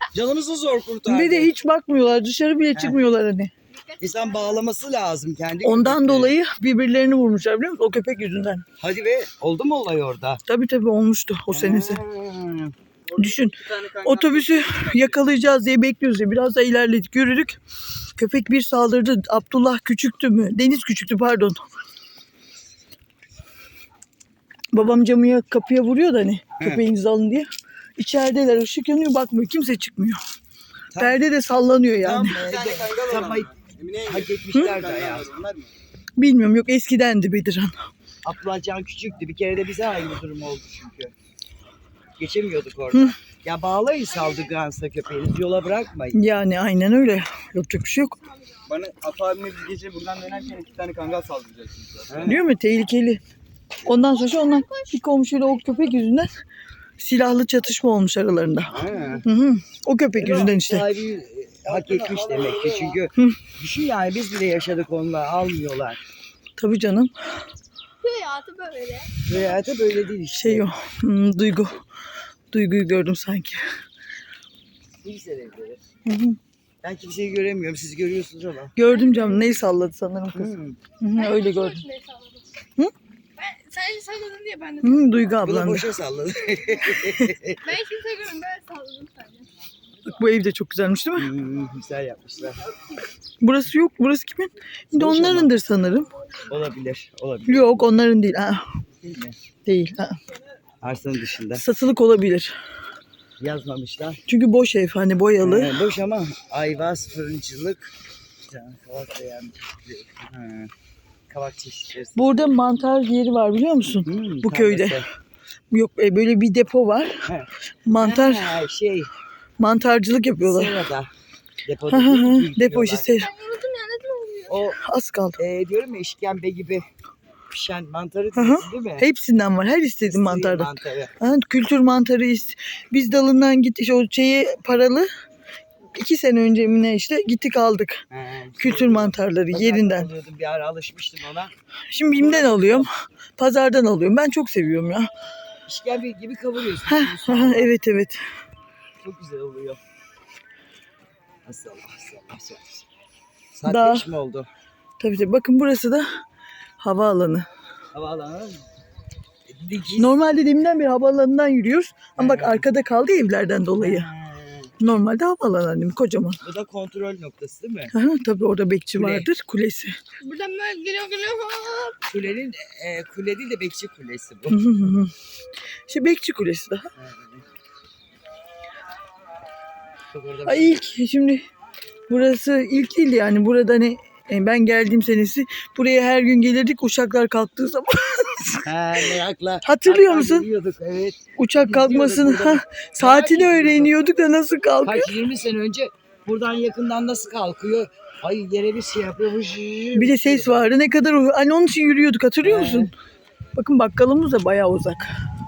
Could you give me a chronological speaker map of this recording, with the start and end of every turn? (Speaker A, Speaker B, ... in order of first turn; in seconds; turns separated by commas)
Speaker A: 0.1-1.5, Speaker B: 1.1-3.5, Speaker A: 2.7-3.0, Speaker C: 3.7-4.6, Speaker A: 4.0-6.3, Speaker B: 5.6-8.6, Speaker A: 8.8-10.4, Speaker B: 10.5-12.0, Speaker A: 11.5-12.7, Speaker D: 13.1-15.1, Speaker B: 13.2-17.6, Speaker B: 18.2-21.6, Speaker B: 24.7-30.2, Speaker A: 30.9-31.2, Speaker B: 30.9-32.4, Speaker A: 32.0-33.5, Speaker D: 32.4-35.7, Speaker A: 34.0-35.3, Speaker B: 36.2-37.9, Speaker A: 38.2-41.1, Speaker A: 42.2-46.2, Speaker B: 46.1-48.2, Speaker D: 48.7-52.3, Speaker A: 52.1-52.4, Speaker B: 52.2-53.2, Speaker B: 53.9-56.3, Speaker C: 53.9-55.0, Speaker B: 57.0-60.9, Speaker D: 58.7-59.2, Speaker C: 58.9-59.2, Speaker A: 60.2-66.0, Speaker D: 61.7-63.0, Speaker B: 66.6-67.1, Speaker C: 68.0-69.1, Speaker A: 69.2-70.7, Speaker B: 70.3-71.8, Speaker B: 72.5-73.7, Speaker A: 75.0-75.8, Speaker B: 76.0-76.4, Speaker A: 76.8-78.7, Speaker B: 78.8-81.8, Speaker C: 78.9-79.6, Speaker A: 80.3-80.8, Speaker C: 81.1-82.5, Speaker C: 83.3-85.3, Speaker B: 84.8-85.9, Speaker A: 85.4-87.6, Speaker C: 87.6-89.5, Speaker B: 90.0-91.3, Speaker A: 91.2-92.6, Speaker B: 93.4-96.1, Speaker A: 94.9-95.5, Speaker A: 96.5-97.9, Speaker B: 97.5-98.6, Speaker A: 99.0-99.4, Speaker B: 99.7-100.2, Speaker A: 100.8-101.6, Speaker B: 101.5-102.5, Speaker A: 103.4-104.2, Speaker B: 104.3-105.8, Speaker A: 105.4-107.9, Speaker A: 108.5-110.7, Speaker A: 111.3-112.5, Speaker B: 112.2-115.0, Speaker A: 114.0-115.0, Speaker B: 115.7-117.2, Speaker A: 117.2-119.1, Speaker B: 117.8-118.6, Speaker B: 119.6-120.8, Speaker A: 120.4-121.1, Speaker A: 121.6-123.1, Speaker B: 121.9-123.3, Speaker C: 123.1-124.5, Speaker A: 124.5-124.8, Speaker B: 124.8-125.4, Speaker A: 125.4-126.8, Speaker A: 127.5-129.1, Speaker B: 128.3-135.1, Speaker A: 130.1-131.1, Speaker B: 135.9-138.0, Speaker A: 138.1-141.5, Speaker B: 138.6-140.1, Speaker B: 141.9-145.1, Speaker A: 142.1-142.9, Speaker A: 145.7-147.7, Speaker B: 146.8-148.2, Speaker A: 149.0-149.8, Speaker A: 151.4-152.8, Speaker A: 153.5-154.5, Speaker B: 153.7-154.0, Speaker B: 155.0-156.1, Speaker B: 156.8-157.4, Speaker A: 157.9-158.6, Speaker A: 159.5-160.2, Speaker B: 160.0-164.1, Speaker A: 162.2-162.6, Speaker A: 163.8-164.7, Speaker B: 164.8-166.4, Speaker A: 166.4-167.9, Speaker B: 167.9-169.9, Speaker A: 168.9-169.3, Speaker C: 170.2-172.0, Speaker A: 172.1-174.9, Speaker B: 174.5-175.1, Speaker B: 175.9-176.9, Speaker A: 176.9-177.4, Speaker A: 180.1-180.8, Speaker B: 180.4-181.4, Speaker B: 182.1-188.7, Speaker A: 188.7-193.9, Speaker B: 189.6-190.4, Speaker B: 191.4-195.1, Speaker A: 194.8-200.7, Speaker B: 199.9-202.9, Speaker A: 202.4-202.9, Speaker B: 203.6-205.1